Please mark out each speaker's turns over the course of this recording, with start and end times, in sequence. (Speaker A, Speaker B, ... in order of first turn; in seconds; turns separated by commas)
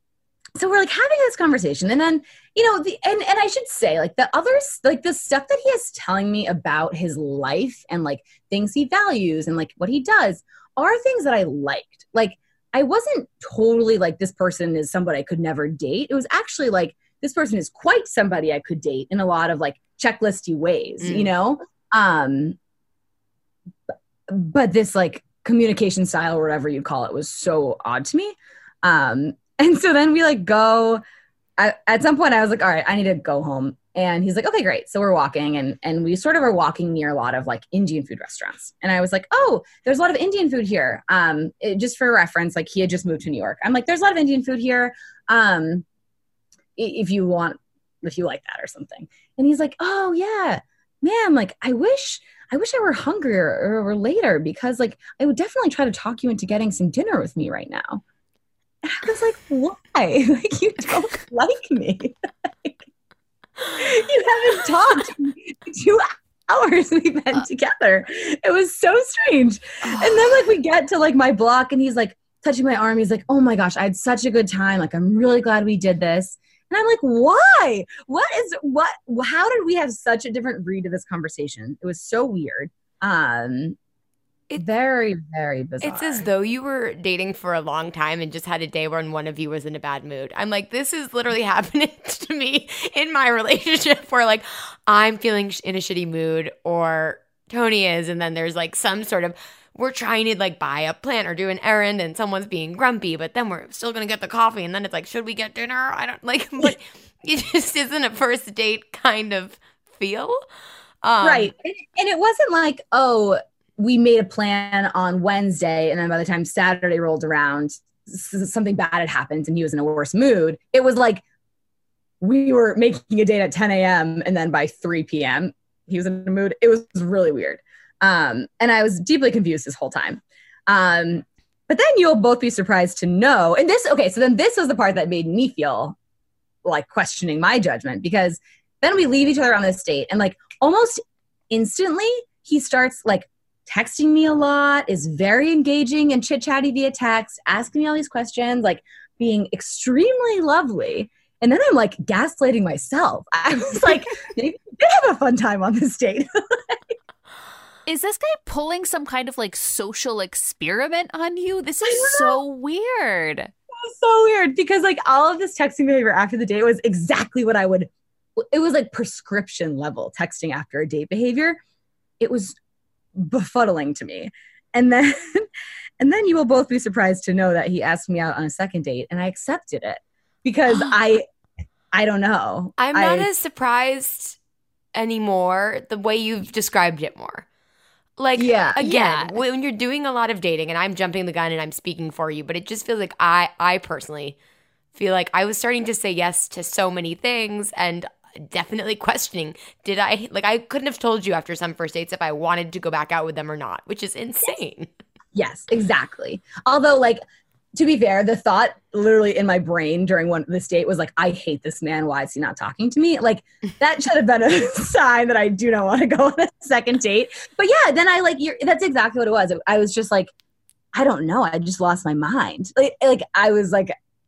Speaker A: 0.6-22.6, Speaker B: 21.0-21.3, Speaker A: 24.3-31.0, Speaker A: 31.6-45.9, Speaker A: 46.8-58.0, Speaker A: 58.8-62.8, Speaker A: 63.6-83.8, Speaker C: 69.8-70.3, Speaker A: 84.6-86.3, Speaker B: 85.8-110.4, Speaker B: 111.0-111.5, Speaker A: 111.2-121.2, Speaker A: 122.2-135.9, Speaker A: 136.6-156.8, Speaker C: 157.9-163.5, Speaker A: 161.8-162.4, Speaker A: 163.8-171.6, Speaker A: 172.2-172.6, Speaker A: 173.1-175.5, Speaker A: 176.0-181.2, Speaker A: 181.9-183.3, Speaker B: 182.8-184.4, Speaker B: 184.9-187.4, Speaker B: 188.2-194.4, Speaker A: 188.4-188.8, Speaker C: 188.8-189.4, Speaker B: 194.9-204.9, Speaker A: 205.3-207.2, Speaker A: 207.7-220.3, Speaker A: 220.9-223.9